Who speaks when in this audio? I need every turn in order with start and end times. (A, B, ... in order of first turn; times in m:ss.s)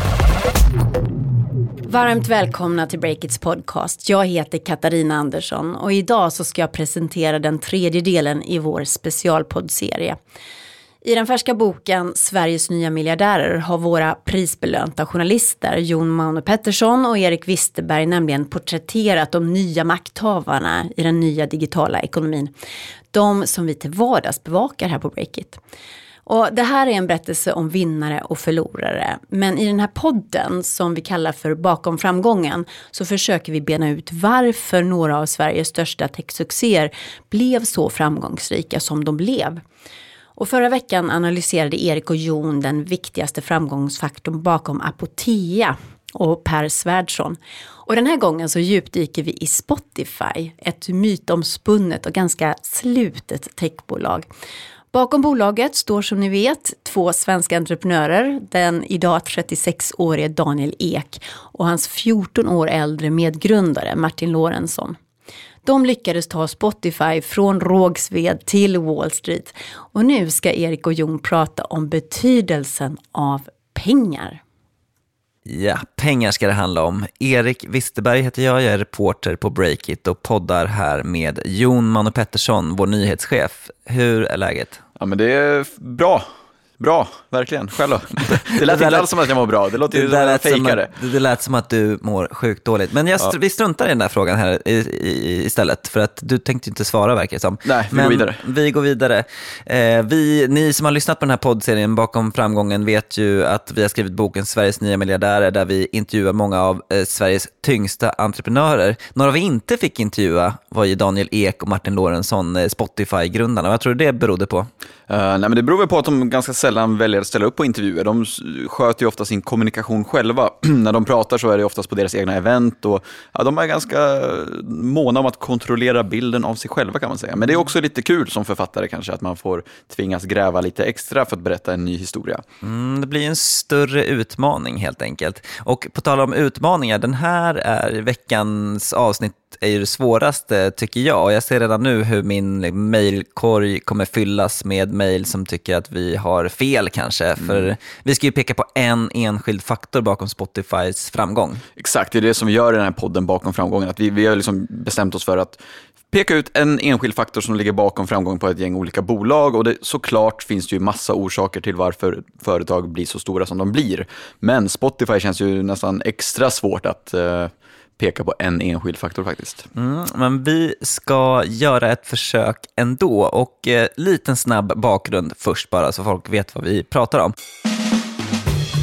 0:01.9-0:10.2 A
0:11.0-0:22.5 A
0:23.1-0:25.6 A
0:26.2-0:39.6 A
0:40.4-0:54.3 A
0:54.9-1:05.0 A
1:05.6-1:14.4 A
1:15.4-1:24.8 B
1:25.0-1:26.3 C
1:26.8-1:30.9 C
1:28.5-1:29.1 B
1:29.9-1:54.7 B
1:37.6-1:38.4 C
1:55.1-2:12.4 C
2:12.6-2:31.6 B
2:27.4-2:27.7 C
2:31.8-2:35.6 C
2:36.1-2:49.7 C
2:49.8-2:57.3 B